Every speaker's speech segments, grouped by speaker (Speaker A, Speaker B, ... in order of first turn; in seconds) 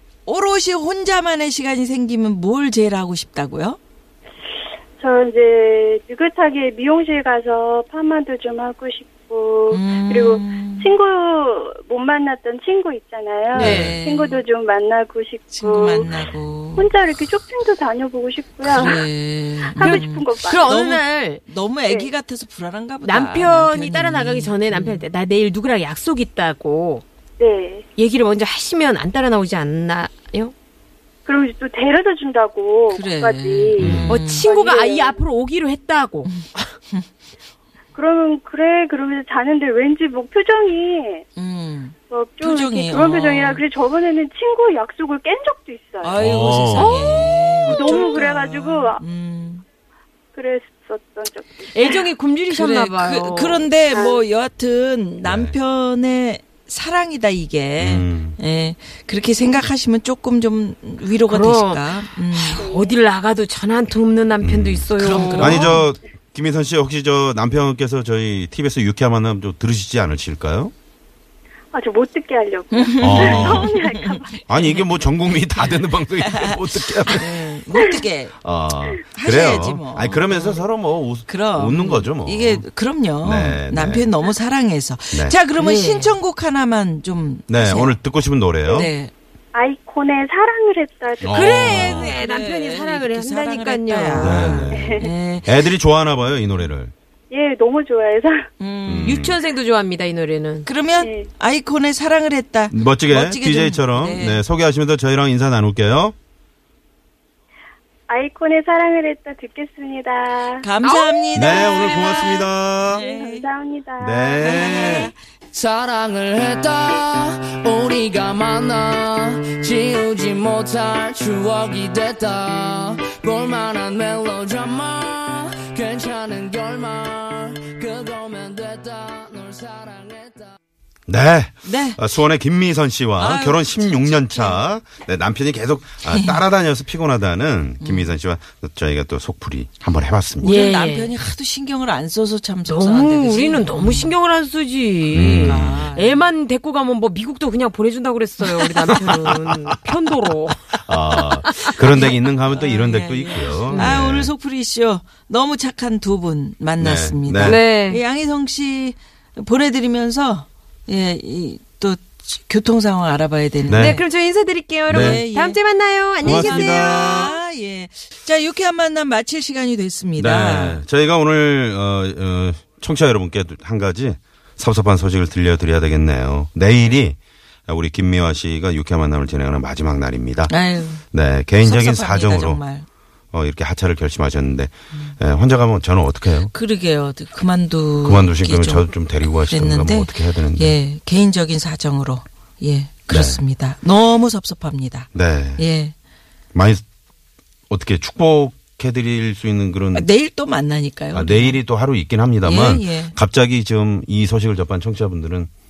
Speaker A: 0.2-3.8, 9.7-10.9, 13.5-14.4, 15.5-16.9, 18.6-25.0, 32.9-34.4, 41.4-43.6, 46.0-49.6, 52.5-62.6, 65.0-65.8, 72.7-78.4, 79.1-80.7, 81.3-88.0, 88.7-89.1, 91.6-95.5, 98.6-99.3, 100.6-104.4, 110.6-113.5, 114.4-115.1, 131.6-132.0, 133.2-134.6, 136.1-136.4, 137.8-138.1, 140.4-144.1, 145.2-146.2, 151.9-164.0, 164.9-165.6, 166.2-170.8, 180.5-181.0, 181.6-182.8, 186.5-195.9, 199.9-201.6, 202.4-203.1
Speaker B: 5.0-16.1, 16.8-19.1, 19.7-20.7, 27.4-27.9, 31.2-35.2, 37.9-41.2, 42.1-46.2, 47.6-49.0, 50.3-52.0, 53.9-54.2, 62.6-63.0, 71.7-74.3, 89.5-91.8, 94.7-95.1, 97.3-98.5, 101.0-101.3, 108.1-110.7, 112.9-114.5
Speaker C: 13.6-13.9, 19.8-21.4, 23.0-27.0, 28.0-30.5, 34.1-36.4, 46.8-48.5, 51.7-53.7, 61.2-65.7, 85.6-86.1, 91.3-94.7, 99.0-100.7, 110.8-112.2, 140.4-141.1, 142.7-152.1, 153.7-154.0, 157.4-158.0, 163.7-167.3
Speaker D: 33.8-34.2, 46.1-47.1, 55.2-55.6, 57.8-58.4, 64.4-70.7, 73.0-73.8, 74.5-77.6, 78.4-82.7, 83.2-84.1, 87.5-88.9, 91.2-92.1, 94.1-96.9, 98.9-99.4, 102.7-106.1, 111.3-113.0, 114.0-115.1, 131.1-140.5, 145.1-145.8, 150.8-154.3, 156.8-157.6, 163.7-164.0, 164.9-165.2, 166.2-167.3, 170.2-177.2, 177.7-180.5, 181.1-182.6, 183.3-186.5, 188.0-190.8, 193.1-193.4, 195.1-195.6, 196.5-196.8, 197.7-200.1, 201.1-205.5
Speaker E: 115.5-130.5